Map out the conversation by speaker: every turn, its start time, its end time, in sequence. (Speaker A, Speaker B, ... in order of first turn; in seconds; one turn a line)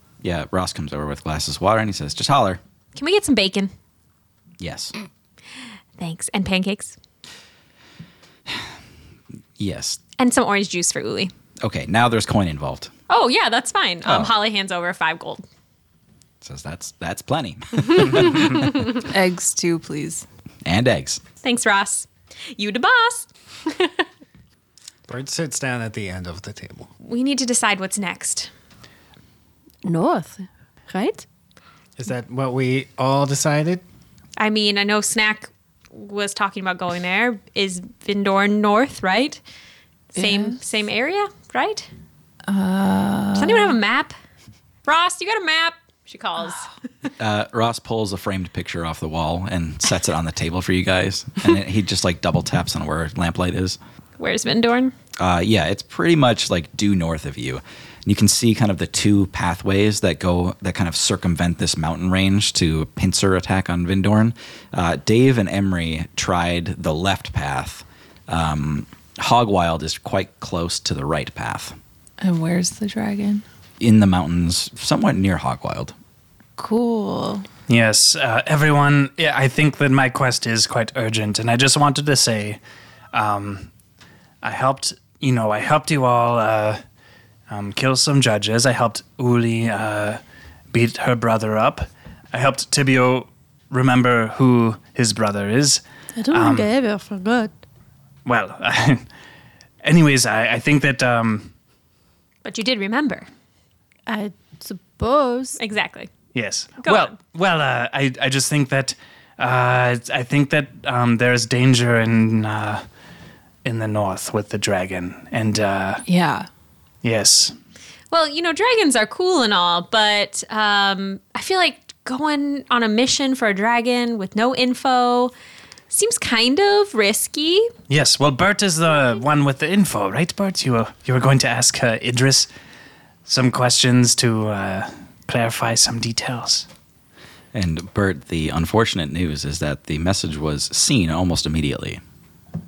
Speaker A: 0.2-2.6
Speaker B: 3.0-3.7
Speaker A: 4.6-4.9
Speaker B: 6.0-7.0
Speaker A: 9.6-10.0
Speaker B: 10.2-11.3
Speaker A: 11.6-12.9
Speaker B: 13.1-15.4
Speaker A: 14.1-14.3
Speaker A: 16.4-18.8
Speaker C: 18.8-20.3
Speaker A: 20.6-21.2
Speaker B: 21.4-23.3
Speaker D: 25.1-26.9
Speaker B: 27.0-28.5
Speaker E: 29.9-31.2
Speaker D: 32.0-33.8
Speaker B: 34.4-39.4
Speaker B: 40.1-41.9
Speaker C: 40.2-40.6
Speaker C: 42.5-43.8
Speaker B: 43.4-44.1
Speaker B: 44.9-46.7
Speaker A: 47.2-53.8
Speaker B: 54.2-54.9
Speaker A: 55.2-71.8
Speaker C: 72.2-73.4
Speaker A: 73.8-75.9
Speaker C: 76.6-77.5
Speaker F: 77.7-82.6
Speaker F: 83.1-83.7
Speaker F: 84.4-86.8
Speaker F: 87.5-90.2
Speaker F: 90.7-96.7
Speaker E: 96.2-97.5
Speaker F: 98.2-99.0
Speaker F: 99.8-101.5
Speaker B: 102.5-103.3
Speaker E: 104.1-105.6
Speaker B: 105.6-106.1
Speaker F: 106.3-112.8
Speaker B: 106.8-107.1
Speaker F: 113.6-116.0
Speaker C: 116.1-116.5
Speaker F: 117.0-117.5
Speaker B: 118.1-125.3
Speaker B: 125.9-127.7
Speaker F: 127.9-132.5
Speaker F: 133.3-136.7
Speaker A: 137.5-142.0